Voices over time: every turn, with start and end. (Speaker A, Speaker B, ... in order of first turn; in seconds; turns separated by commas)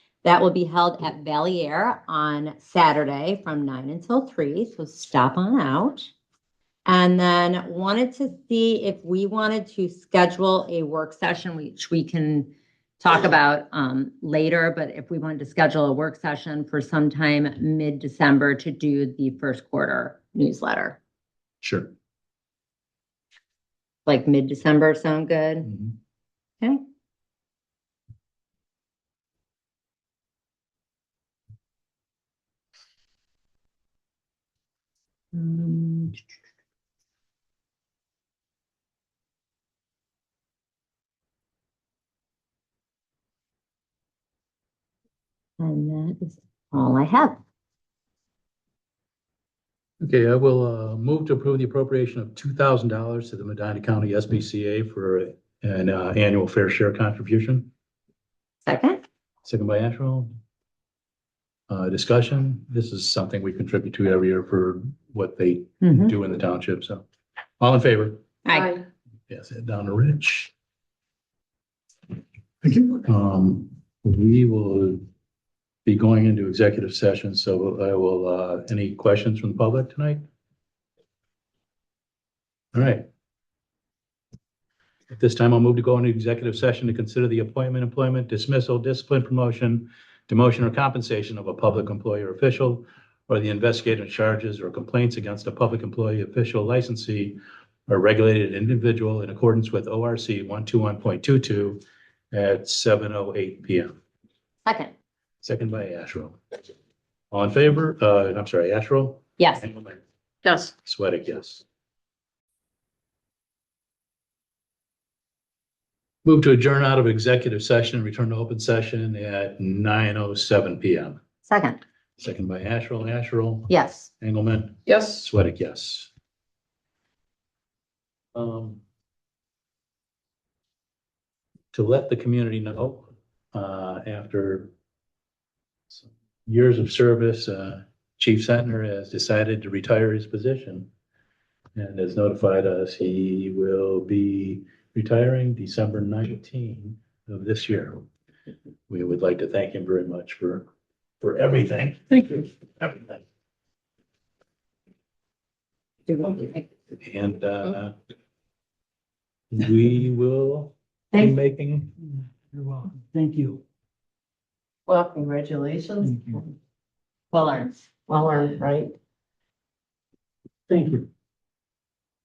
Speaker A: 0.2-6.1, Speaker A: 6.8-21.0, Speaker B: 21.6-21.9, Speaker A: 24.1-25.7, Speaker B: 25.7-25.9, Speaker A: 35.3-36.2, Speaker A: 45.6-47.4, Speaker B: 50.0-57.7, Speaker A: 58.6-59.0, Speaker B: 59.4-60.3, Speaker B: 61.7-67.0, Speaker A: 65.8-66.1, Speaker B: 67.6-68.3, Speaker A: 68.5-68.8, Speaker C: 68.5-68.8, Speaker B: 69.3-70.5, Speaker B: 72.6-75.0, Speaker B: 75.8-80.2, Speaker B: 82.7-83.0, Speaker B: 85.1-101.8, Speaker B: 102.3-103.9, Speaker A: 104.6-104.9, Speaker B: 105.4-106.4, Speaker B: 107.3-110.0, Speaker C: 110.4-110.7, Speaker B: 110.8-111.6, Speaker B: 116.2-121.2, Speaker A: 121.5-121.8, Speaker B: 122.2-126.1, Speaker A: 123.7-124.1, Speaker C: 124.9-125.2, Speaker B: 128.3-128.8, Speaker B: 131.7-134.7, Speaker B: 135.9-140.9, Speaker B: 141.8-148.0, Speaker B: 148.9-150.7, Speaker B: 151.2-153.2, Speaker A: 156.1-156.7, Speaker B: 157.0-157.9, Speaker B: 159.5-161.9, Speaker D: 162.0-163.6, Speaker C: 164.9-166.5, Speaker D: 166.0-166.4, Speaker A: 167.3-167.7, Speaker C: 168.1-168.9, Speaker D: 170.7-171.1